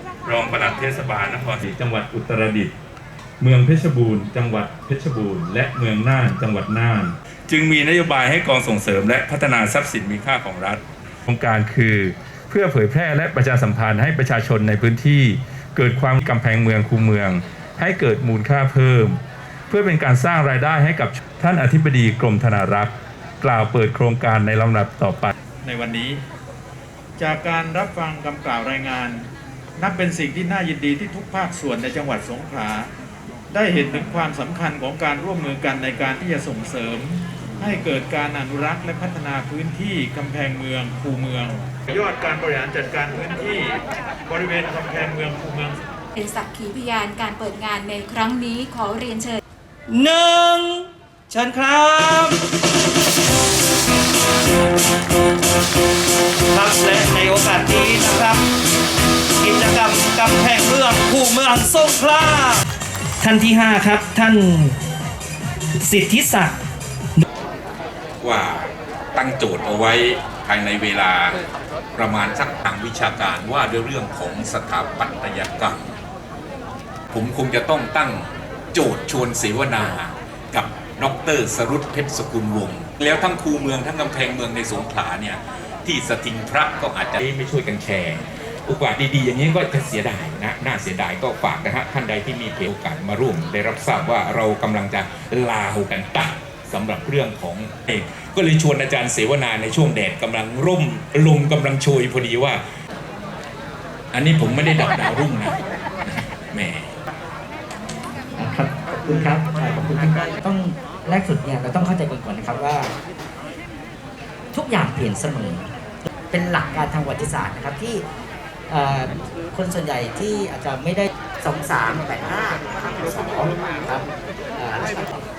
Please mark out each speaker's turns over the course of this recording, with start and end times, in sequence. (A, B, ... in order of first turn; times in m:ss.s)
0:00.2-0:02.7 A
0:03.4-0:25.3 A
0:25.6-0:26.2 B
0:27.2-0:32.9 B
0:33.5-0:45.8 B
0:46.2-0:49.4 C
0:49.9-0:52.4 D
0:56.5-0:58.4 D
0:59.4-1:02.6 D
1:03.2-1:04.8 D
1:05.8-1:06.6 D
1:08.2-1:11.4 E
1:11.9-1:15.9 E
1:17.1-1:42.6 E
1:44.1-1:47.0 E
1:48.4-1:52.9 F
1:54.5-1:58.0 F
1:58.7-2:05.2 F